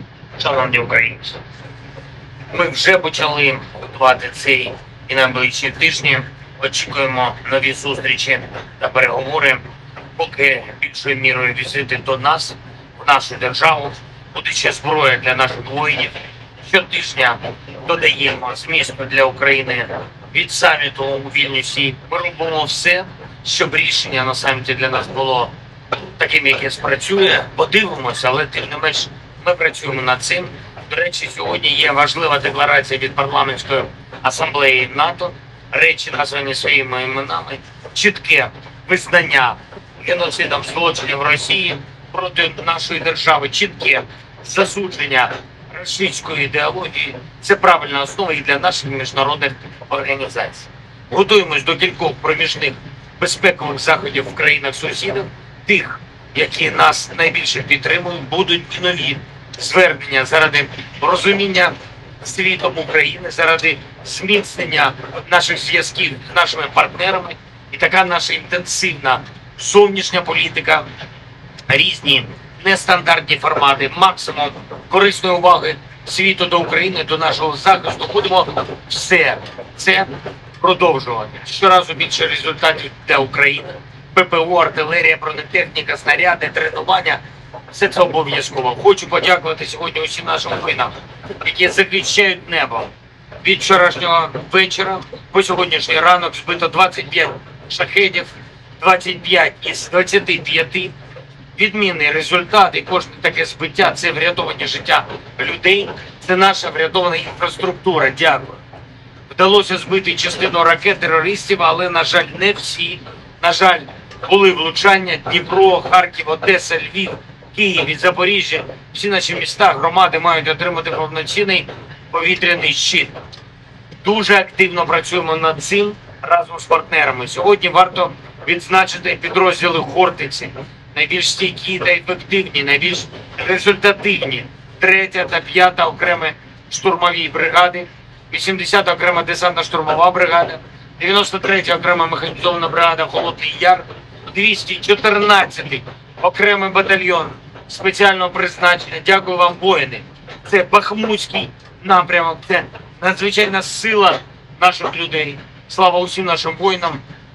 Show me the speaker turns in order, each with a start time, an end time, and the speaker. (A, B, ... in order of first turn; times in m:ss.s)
0:00.4-0:01.4 A
0:02.5-0:09.6 A
0:10.2-0:25.5 A
0:26.2-1:10.9 A
1:11.7-1:40.9 A
1:41.5-1:48.6 A
1:49.3-2:03.1 A
2:04.0-2:37.0 A